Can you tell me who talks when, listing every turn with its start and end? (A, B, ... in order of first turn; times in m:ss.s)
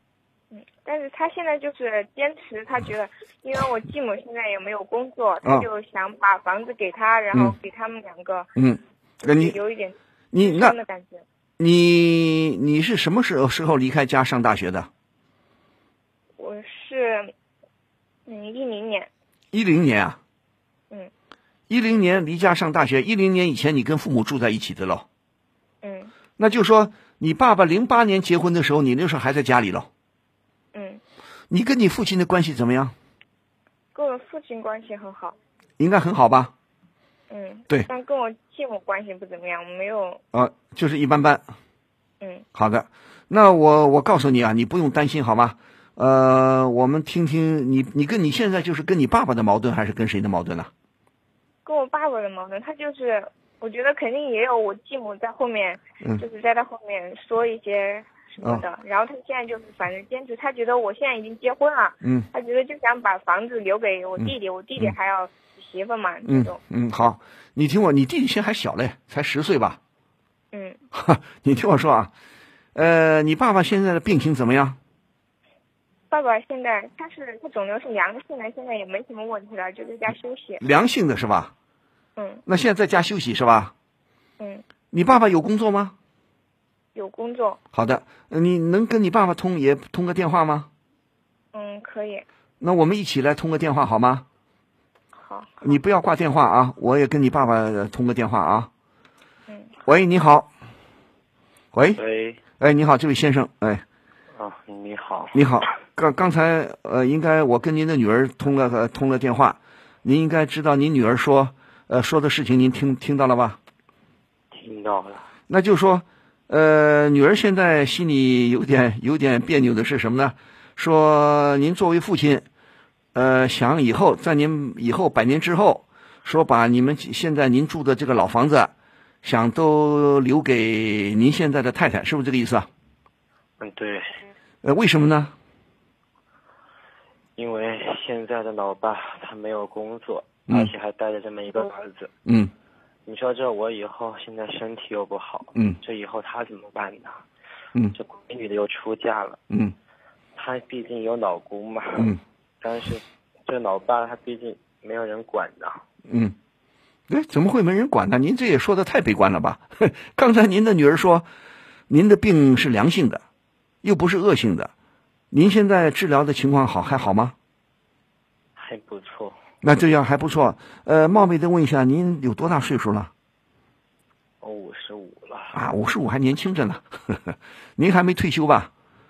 0:00.5-0:08.5 A
0:08.6-0:09.6 B
0:09.2-0:11.2 A
0:10.3-0:10.8 B
0:11.6-0:14.9 B
0:16.4-0:17.3 A
0:18.3-0:19.1 A
0:19.5-0:20.2 B
0:21.7-0:25.1 B
0:25.8-0:26.1 A
0:26.4-0:29.9 B
0:30.7-0:31.0 A
0:31.5-0:33.0 B
0:33.9-0:35.4 A
0:35.8-0:36.5 B
0:37.3-0:40.2 A
0:40.3-0:41.4 B
0:42.2-0:42.5 A
0:42.6-0:50.7 B
0:51.6-1:06.6 A
1:02.0-1:02.3 B
1:04.2-1:05.0 B
1:06.2-1:09.8 B
1:10.5-1:10.8 A
1:10.9-1:12.1 B
1:12.8-1:14.8 B
1:16.1-1:20.6 A
1:20.6-1:21.5 B
1:22.2-1:22.4 A
1:22.5-1:23.7 B
1:24.4-1:24.6 A
1:24.9-1:26.0 B
1:27.0-1:27.6 A
1:27.7-1:30.7 B
1:31.5-1:32.3 A
1:32.6-1:34.2 B
1:35.2-1:35.8 A
1:35.6-1:38.7 B
1:39.5-1:39.7 A
1:39.8-1:40.5 B
1:41.7-1:42.0 B
1:42.0-1:42.4 C
1:42.6-1:43.8 B
1:44.4-1:45.6 C
1:45.3-1:53.6 B
1:54.5-1:55.3 C
1:55.5-2:02.5 B
2:03.1-2:12.7 B
2:13.6-2:14.3 C
2:14.6-2:15.4 B
2:17.4-2:22.1 C
2:22.3-2:22.5 B
2:23.1-2:27.2 C
2:27.9-2:29.4 C
2:29.5-2:29.8 B
2:30.4-2:35.8 C
2:36.1-2:36.4 B
2:37.1-2:41.3 B
2:41.9-2:43.2 B
2:43.8-2:44.7 B
2:45.3-2:47.4 B
2:48.6-2:49.4 C
2:49.6-2:53.1 B
2:54.4-2:55.6 C
2:55.5-2:58.7 B